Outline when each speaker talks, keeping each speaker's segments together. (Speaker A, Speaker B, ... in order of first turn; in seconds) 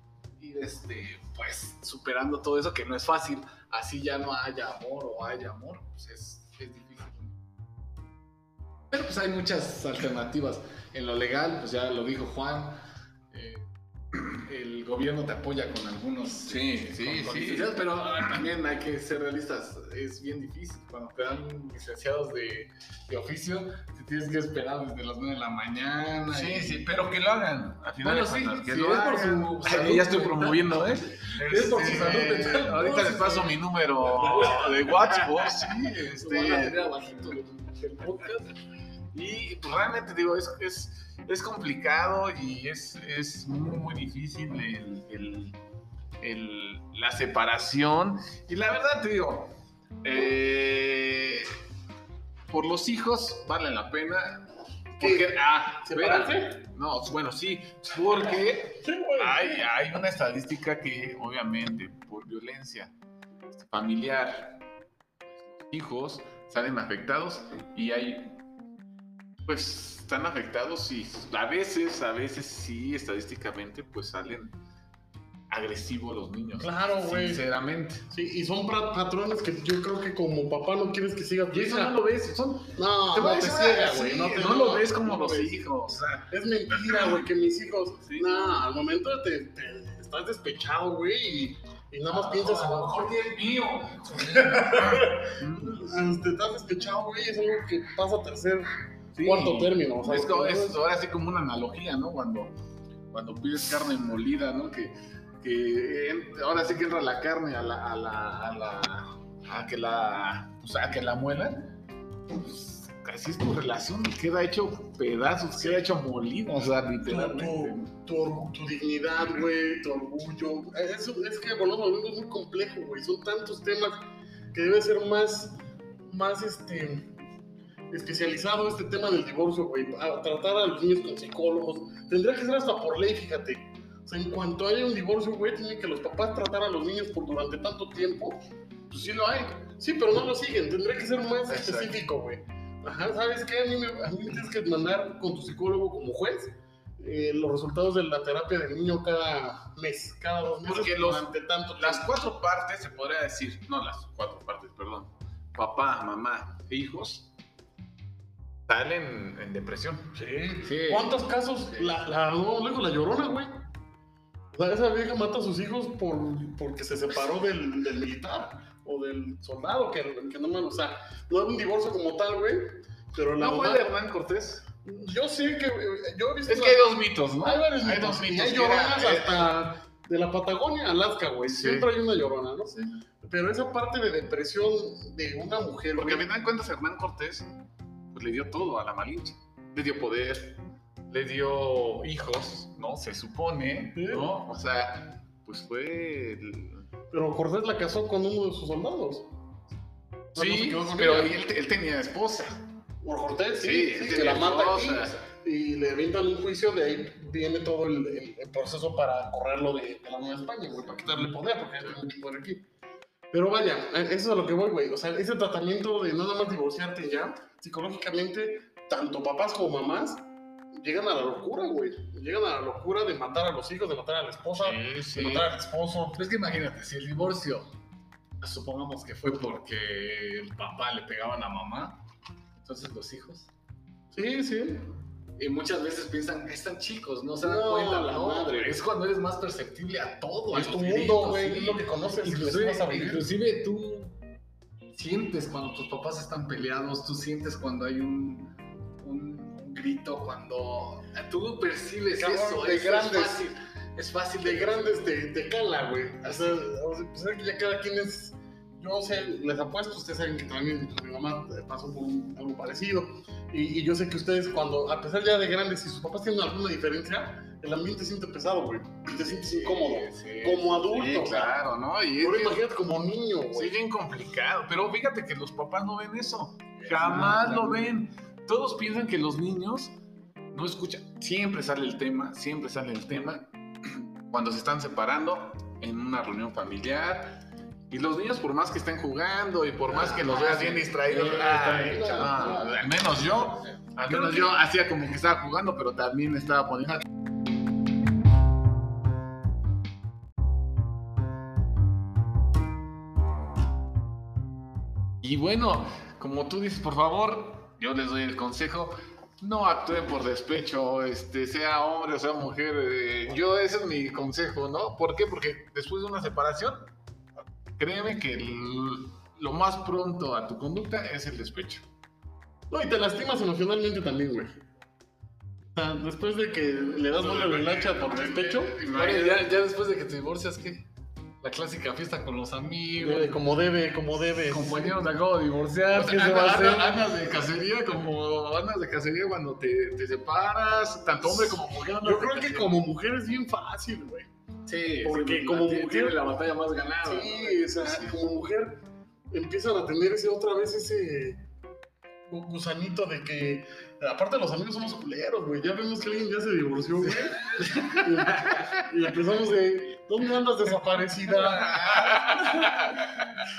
Speaker A: 0.4-7.4, 8.9-13.7, 14.2-26.9, 28.0-38.5, 92.1-95.0, 160.7-161.2, 225.1-225.4, 226.1-227.7, 228.4-232.0, 232.6-233.5, 235.4-244.2, 244.9-255.1, 276.9-277.9, 289.9-294.6, 328.8-330.9, 331.4-333.4, 334.4-337.6, 344.7-348.1, 357.5-358.0, 362.1-362.8
Speaker B: 16.5-17.7, 26.3-37.3, 39.1-45.6, 46.2-51.5, 52.5-62.9, 63.5-64.6, 65.5-68.4, 69.5-74.5, 75.5-78.1, 81.5-87.1, 88.1-88.5, 94.9-95.9, 99.2-102.6, 103.1-111.7, 112.3-117.9, 141.5-141.9, 150.7-157.3, 158.7-160.1, 173.4-174.7, 176.5-179.5, 181.5-181.9, 186.0-187.5, 188.1-196.9, 200.3-202.6, 203.6-205.2, 224.6-225.4, 269.8-272.6, 273.5-280.0, 280.5-297.1, 305.2-316.9, 317.8-321.9, 327.1-329.5, 335.9-342.7, 361.3-363.4
Speaker C: 55.0-56.6, 58.8-59.7, 76.6-77.5, 78.1-82.0, 82.6-85.6, 86.3-93.2, 94.3-98.7, 99.2-100.8, 117.0-127.2, 127.9-152.1, 160.1-163.6, 164.5-173.9, 174.8-186.3, 193.9-194.3, 197.1-199.3, 200.3-201.4, 203.0-212.7, 213.3-226.2, 234.1-234.9, 237.4-238.8, 240.5-243.3, 252.2-253.5, 254.4-271.6, 272.2-273.8, 276.8-277.4, 291.1-292.7, 322.7-324.6, 325.8-328.8, 333.0-335.0, 335.9-337.0, 342.0-344.3, 345.0-346.2, 347.0-351.4, 352.3-362.1